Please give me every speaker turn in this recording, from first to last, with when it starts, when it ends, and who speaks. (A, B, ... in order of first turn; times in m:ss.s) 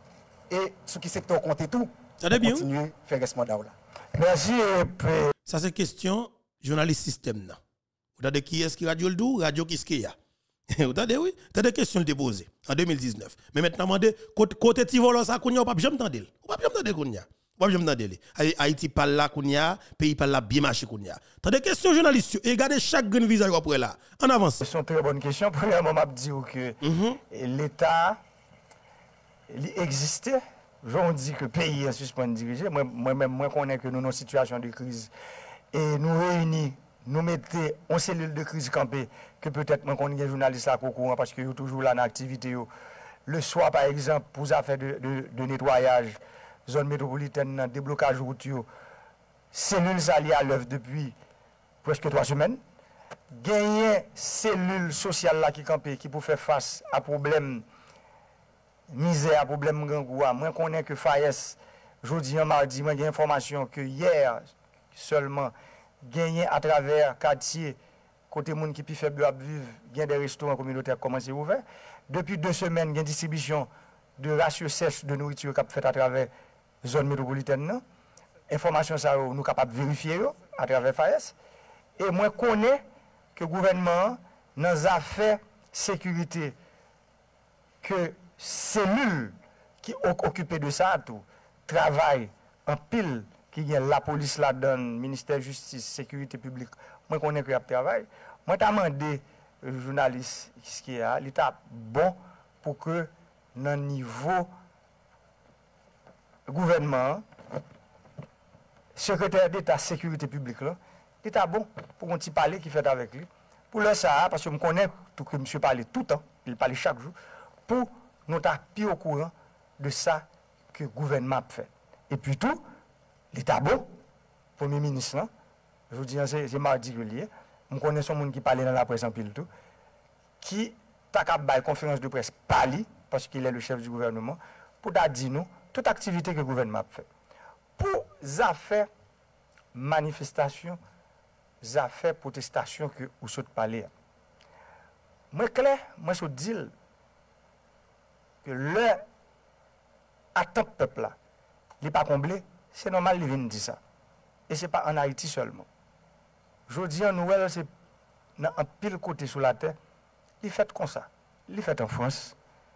0:00.5-0:03.8 A
0:02.2-0:02.7 B
0:04.2-0:05.3 C
0:05.5-0:07.6 B
0:08.2-0:10.2 B
0:10.7-0:24.6 B
0:24.6-0:28.2 C
0:26.8-0:27.2 B
0:29.5-0:35.1 C
0:35.7-0:42.7 C
0:43.3-0:48.7 C
0:49.5-0:51.2 C
0:51.8-0:52.6 C
0:53.3-0:57.7 C
0:58.9-1:07.8 C
1:08.3-1:16.3 C
1:16.8-1:17.8 C
1:18.5-1:21.4 C
1:22.0-1:22.8 C
1:23.4-1:26.6 C
1:27.8-1:44.5 C
1:46.5-1:47.2 C
1:49.0-1:57.2 C
1:57.7-2:02.6 C
2:03.3-2:03.9 C
2:04.6-2:05.3 C
2:05.9-2:09.5 C
2:10.4-2:17.1 C
2:17.8-2:18.9 C
2:19.7-2:20.8 C
2:21.6-2:23.9 C
2:25.3-2:26.7 C
2:28.4-2:29.0 C
2:30.4-2:31.2 C
2:31.8-2:33.8 C
2:34.5-2:35.7 C
2:36.7-2:37.7 C
2:38.4-2:39.8 C
2:40.4-2:42.4 C